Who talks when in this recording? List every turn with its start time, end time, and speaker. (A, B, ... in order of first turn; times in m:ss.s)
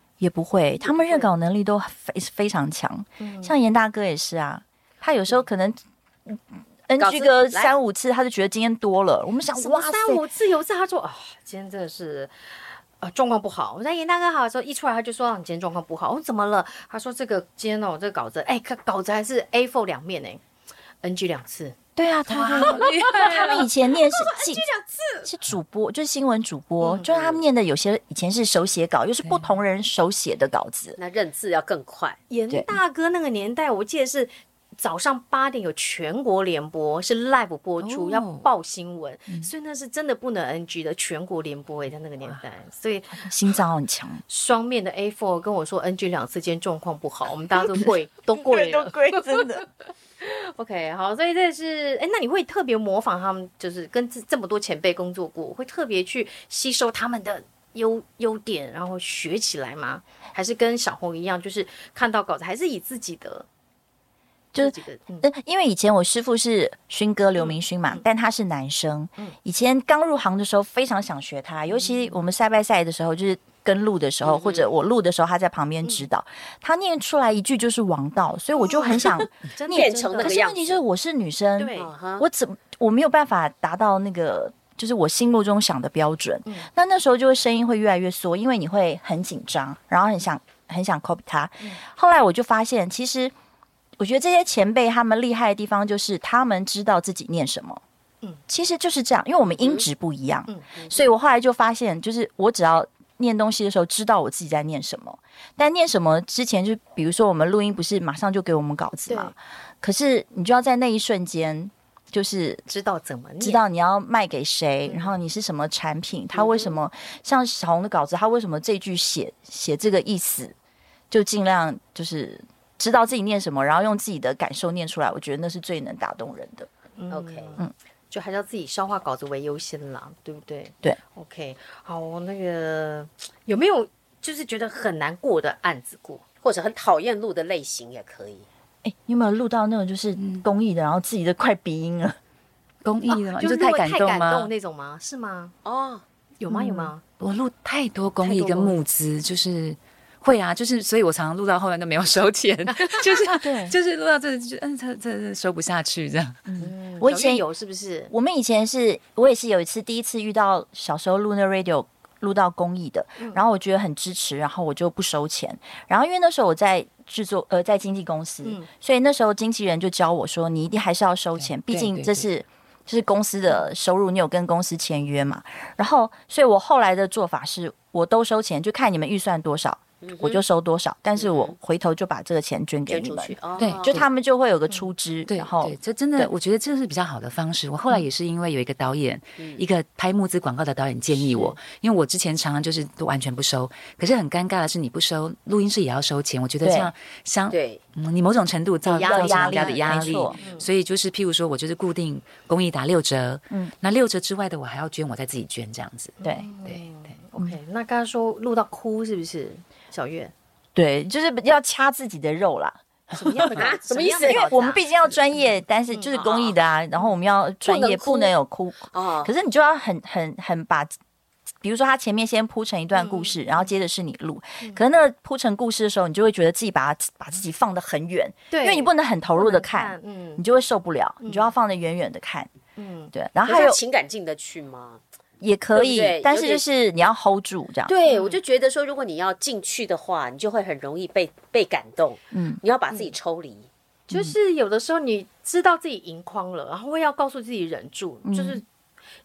0:00.2-0:10.2 A
0:00.8-0:01.3 B
0:03.2-0:03.5 B
0:07.0-0:07.7 C
0:09.5-0:20.4 B
0:21.0-0:21.8 B
0:22.0-0:24.6 A
0:22.3-0:25.3 B
0:22.4-0:23.2 D
0:25.2-0:31.0 A
0:26.8-0:27.1 B
0:27.0-0:27.4 C
0:29.2-0:29.5 D
0:31.0-0:32.2 C
0:32.3-0:43.3 B
0:37.8-0:38.5 D
0:43.1-0:44.2 A
0:44.3-0:49.6 B
0:48.3-0:49.6 A
0:50.2-1:03.4 B
1:04.5-1:33.3 A
1:04.6-1:05.2 B
1:07.4-1:08.0 B
1:11.7-1:12.2 B
1:14.2-1:14.7 C
1:15.8-1:16.1 B
1:18.6-1:20.4 B
1:19.7-1:20.8 C
1:21.6-1:21.9 B
1:21.8-1:22.2 C
1:34.0-1:37.8 A
1:38.5-1:52.6 A
1:39.5-1:39.8 C
1:40.8-1:41.0 C
1:52.7-1:53.6 B
1:53.4-2:00.5 A
1:54.8-1:55.2 B
1:56.3-1:56.7 C
2:01.1-2:06.7 A
2:07.0-2:16.2 B
2:07.1-2:07.6 C
2:16.4-2:18.4 C
2:18.8-2:22.2 A
2:20.2-2:20.4 D
2:22.8-2:24.5 D
2:23.1-2:25.5 B
2:25.6-2:26.0 C
2:26.4-2:27.0 B
2:26.5-2:26.9 A
2:27.2-2:36.4 D
2:28.2-2:28.7 C
2:32.7-2:33.4 B
2:33.4-2:33.7 A
2:36.4-2:37.4 A
2:36.6-2:38.1 B
2:38.1-3:06.3 A
2:43.2-2:43.4 B
2:51.4-2:52.2 D
3:00.0-3:00.4 C
3:01.2-3:01.5 C
3:02.9-3:04.0 C
3:03.6-3:04.0 D
3:05.3-3:26.8 D
3:16.6-3:16.9 A
3:17.5-3:17.8 C
3:18.8-3:20.7 B
3:19.0-3:20.4 A
3:26.2-3:30.3 B
3:30.7-3:33.5 A
3:33.1-3:34.8 B
3:33.5-3:34.4 C
3:34.2-3:40.9 A
3:35.9-3:36.2 B
3:36.1-3:36.6 C
3:37.6-3:38.3 C
3:38.9-3:39.3 C
3:41.6-3:52.5 A
3:42.9-3:43.7 B
3:48.5-3:50.4 B
3:51.2-3:51.5 B
3:52.8-3:53.1 B
3:53.1-3:53.8 A
3:53.4-3:55.0 C
3:55.4-3:57.9 A
3:55.7-3:56.6 C
3:57.8-4:03.7 C
3:58.0-3:58.4 B
4:02.3-4:02.6 A
4:04.1-4:08.6 B
4:08.2-4:08.6 A